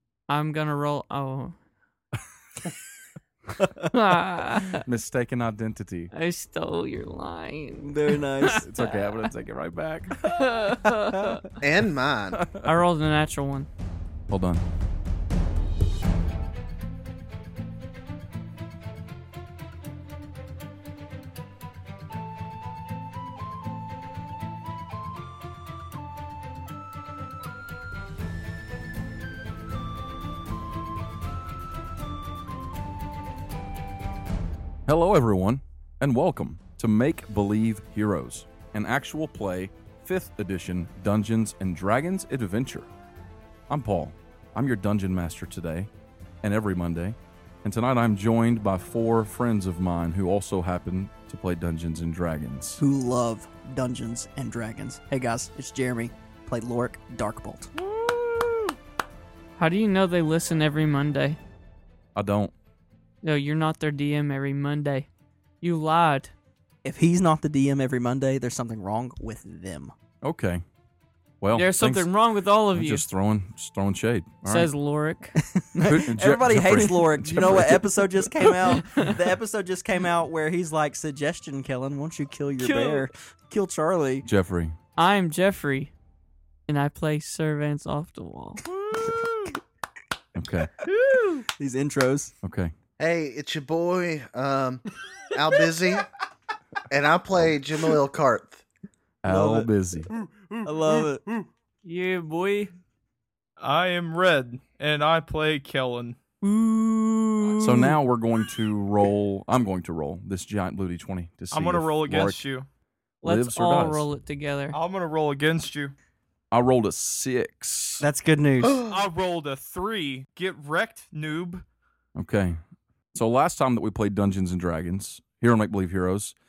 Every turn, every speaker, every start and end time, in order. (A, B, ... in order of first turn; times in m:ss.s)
0:00.3-0:01.5 A
0:03.8-0:04.8 A
0:04.7-0:06.1 B
0:06.1-0:08.9 A
0:07.8-0:08.7 C
0:08.4-0:10.4 B
0:10.2-0:11.5 A
0:11.1-0:11.4 C
0:11.6-0:12.4 D
0:12.3-0:12.7 B
0:12.6-0:13.7 A
0:14.3-0:14.6 B
0:34.8-0:42.9 B
0:43.7-0:45.9 B
0:46.4-0:52.8 B
0:52.8-0:57.7 C
0:59.6-1:01.4 A
1:02.1-1:02.5 B
1:03.2-1:05.1 A
1:05.6-1:06.3 A
1:06.8-1:09.9 C
1:10.2-1:10.6 B
1:11.4-1:12.1 B
1:11.5-1:13.0 A
1:12.7-1:14.7 B
1:14.4-1:15.9 A
1:15.4-1:24.3 C
1:15.8-1:18.5 B
1:17.4-1:17.6 A
1:18.5-1:19.1 A
1:22.6-1:23.1 A
1:24.2-1:24.8 B
1:25.0-1:25.9 A
1:26.7-1:28.6 A
1:29.0-1:29.5 C
1:30.3-1:30.7 B
1:31.4-1:32.3 C
1:32.4-1:32.7 B
1:33.0-1:36.1 D
1:36.9-1:38.6 D
1:39.2-1:40.1 B
1:39.2-1:39.7 C
1:40.6-1:41.2 C
1:41.8-1:42.7 A
1:43.6-1:46.2 E
1:46.4-1:48.0 A
1:47.6-1:52.4 B
1:51.5-1:52.6 E
1:53.2-1:54.1 B
1:53.2-1:54.8 A
1:54.7-1:55.9 E
1:56.5-1:58.0 B
1:58.0-1:58.8 C
1:58.8-2:01.6 E
2:02.2-2:02.6 B
2:03.1-2:06.4 B